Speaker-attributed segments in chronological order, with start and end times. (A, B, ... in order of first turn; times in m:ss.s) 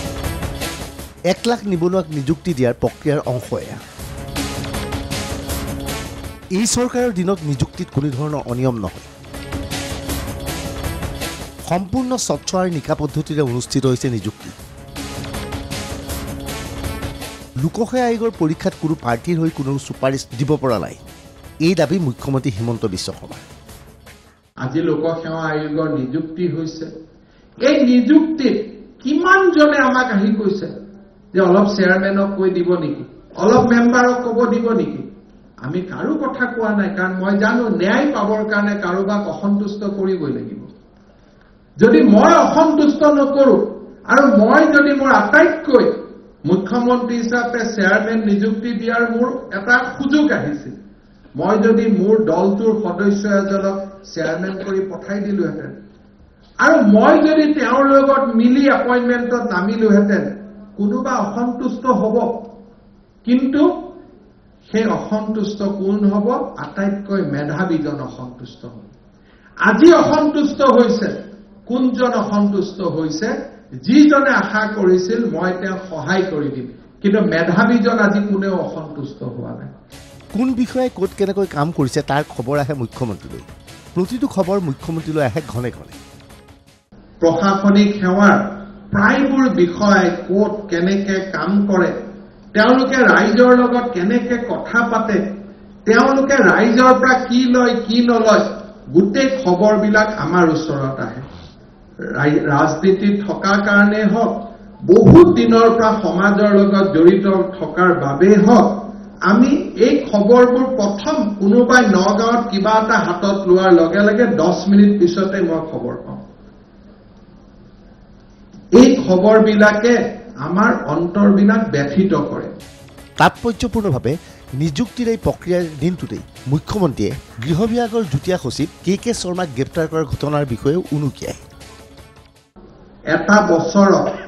0:01.3-0:03.8 A
0:06.6-0:09.1 A
0:11.7-0:14.5 A
0:17.6-0:21.0 A
0:21.6-0:23.4 A
0:24.6-0:26.9 B
0:27.6-0:30.7 B
0:31.3-0:35.0 B
0:35.6-0:40.7 B
0:41.8-0:45.9 B
0:46.5-0:50.8 B
0:51.4-0:55.7 B
0:56.6-1:02.3 B
1:03.2-1:03.6 B
1:04.7-1:08.9 B
1:09.7-1:11.1 B
1:11.7-1:13.3 B
1:13.8-1:19.7 B
1:20.3-1:23.4 A
1:24.0-1:26.0 A
1:27.2-1:28.4 B
1:28.9-1:31.9 B
1:32.6-1:35.2 B
1:35.9-1:41.2 B
1:42.2-1:44.3 B
1:44.9-1:48.7 B
1:49.3-1:56.2 B
1:58.8-2:02.5 B
2:03.2-2:11.4 A
2:13.1-2:14.0 B